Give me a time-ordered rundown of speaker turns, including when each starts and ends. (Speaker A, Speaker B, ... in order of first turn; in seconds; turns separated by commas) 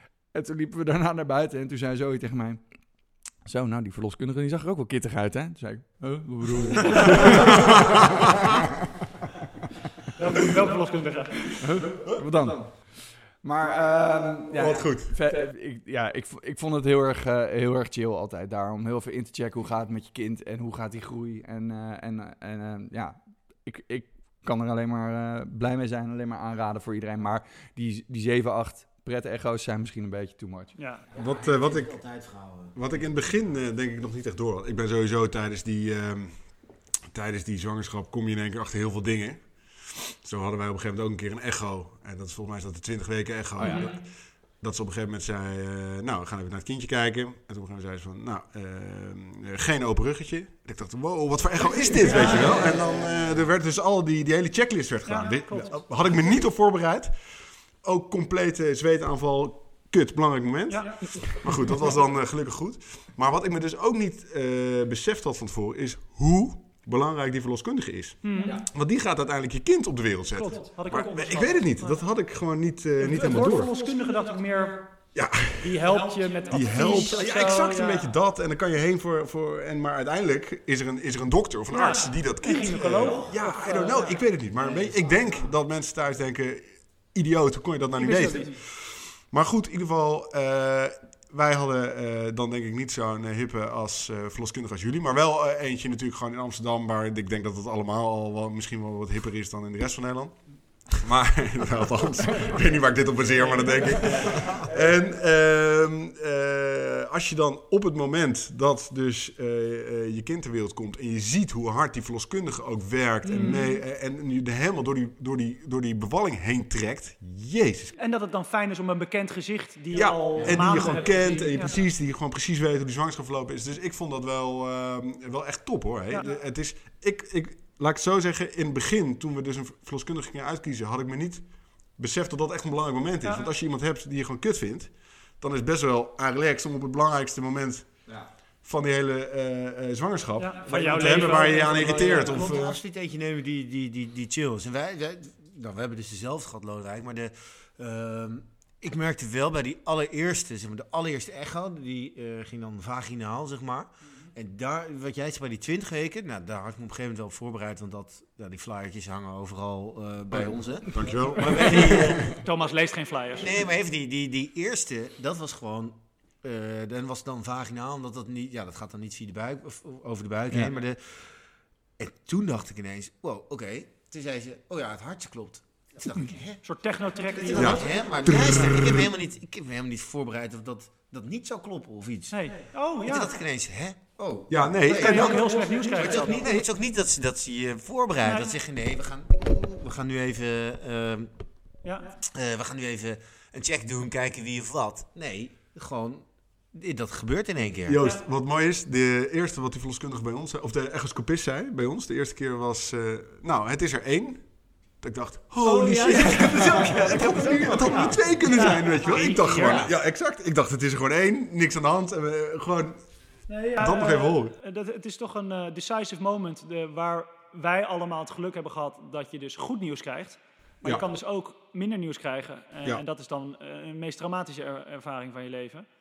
Speaker A: 0.3-2.6, Speaker A: 3.4-8.7, Speaker B: 7.1-8.2, Speaker C: 10.1-11.6, Speaker A: 11.5-30.7, Speaker B: 11.8-12.2, Speaker B: 14.5-15.1, Speaker C: 30.8-31.1, Speaker D: 31.1-32.8, Speaker B: 31.1-32.0, Speaker B: 32.7-36.4, Speaker B: 37.1-44.0, Speaker A: 43.6-43.9, Speaker C: 43.6-44.0, Speaker B: 44.6-73.7, Speaker D: 51.8-53.2, Speaker C: 52.1-52.5, Speaker C: 55.0-55.8, Speaker C: 60.7-61.0, Speaker C: 68.2-68.6, Speaker C: 70.3-72.0, Speaker C: 73.0-75.1, Speaker B: 75.1-75.9, Speaker C: 75.6-78.1, Speaker B: 76.5-117.9, Speaker C: 81.7-84.2, Speaker C: 88.0-88.5, Speaker C: 113.2-113.8, Speaker C: 118.0-121.7, Speaker B: 119.9-138.0, Speaker C: 133.2-133.5, Speaker B: 138.6-142.8, Speaker C: 140.4-142.6, Speaker D: 140.8-162.3, Speaker B: 160.9-162.1, Speaker C: 161.4-163.6, Speaker D: 163.4-171.3, Speaker D: 172.0-176.6, Speaker C: 176.6-178.1, Speaker D: 177.2-182.4, Speaker B: 177.5-179.1, Speaker C: 182.3-183.4, Speaker D: 183.0-191.3, Speaker B: 184.5-185.4, Speaker C: 184.9-186.6, Speaker C: 188.2-188.6, Speaker C: 191.8-192.1, Speaker D: 192.2-198.0, Speaker B: 197.8-204.4, Speaker B: 205.0-213.0, Speaker C: 205.6-209.9, Speaker D: 205.8-208.2, Speaker D: 209.2-209.9, Speaker C: 213.5-225.8, Speaker B: 213.8-214.5